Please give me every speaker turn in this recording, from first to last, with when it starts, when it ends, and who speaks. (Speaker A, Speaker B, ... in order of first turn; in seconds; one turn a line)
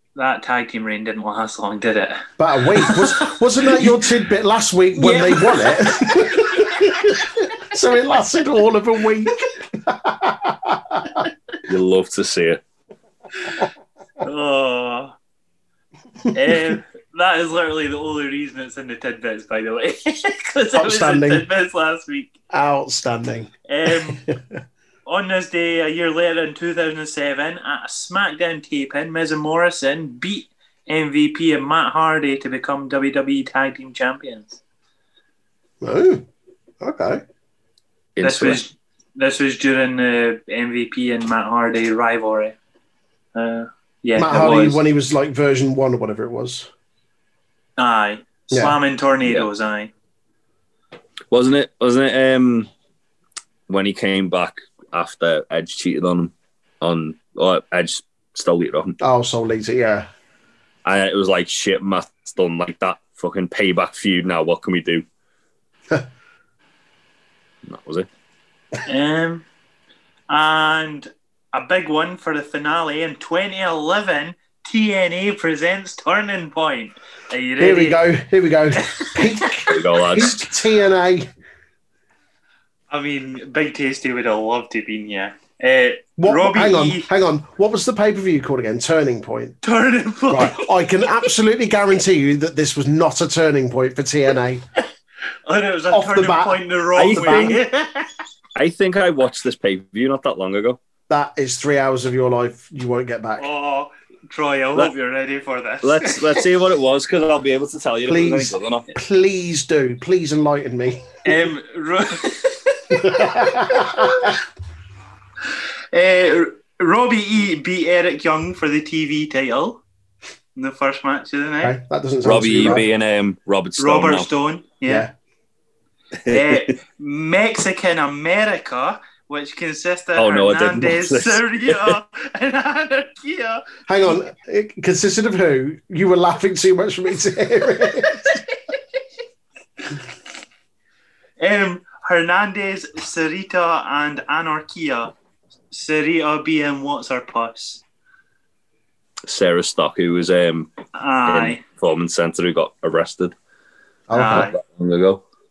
Speaker A: 0.1-4.0
Speaker B: 2.4-11.3
Speaker A: 5.0-7.2
Speaker C: 11.6-12.6
Speaker A: 14.2-15.1
Speaker A: 16.3-22.3
Speaker B: 20.7-21.4
Speaker B: 22.5-24.6
Speaker A: 23.7-24.2
Speaker A: 25.1-34.6
Speaker B: 35.8-36.2
Speaker B: 36.8-37.2
Speaker C: 38.1-38.6
Speaker A: 38.2-42.5
Speaker A: 43.3-44.8
Speaker B: 44.1-46.7
Speaker C: 44.4-44.6
Speaker A: 47.8-49.9
Speaker B: 48.5-48.8
Speaker C: 51.3-52.7
Speaker C: 53.7-59.0
Speaker B: 59.0-60.1
Speaker C: 60.8-65.0
Speaker C: 67.7-68.1
Speaker A: 68.8-69.4
Speaker A: 70.3-78.0
Speaker B: 77.6-81.3
Speaker A: 79.0-79.5
Speaker C: 79.7-80.5
Speaker A: 82.9-87.1
Speaker B: 86.2-89.6
Speaker A: 89.6-90.7
Speaker B: 90.3-94.6
Speaker A: 95.5-98.1
Speaker B: 95.9-97.6
Speaker C: 97.0-97.6
Speaker C: 98.5-100.8
Speaker B: 101.1-103.5
Speaker A: 103.4-106.4
Speaker C: 105.8-108.8
Speaker B: 108.1-111.1
Speaker A: 111.2-114.4
Speaker B: 112.9-114.4
Speaker A: 115.9-119.8
Speaker A: 120.5-121.8
Speaker B: 121.6-122.9
Speaker C: 122.2-124.3
Speaker A: 123.8-125.1
Speaker B: 124.8-125.1
Speaker C: 126.2-126.7
Speaker A: 126.3-134.1
Speaker C: 130.2-132.0
Speaker B: 133.9-138.4
Speaker A: 141.4-145.1
Speaker A: 145.7-147.8
Speaker C: 149.3-150.7
Speaker A: 150.9-151.6
Speaker C: 151.3-153.3
Speaker B: 154.1-154.5
Speaker A: 154.1-154.6
Speaker C: 154.2-155.2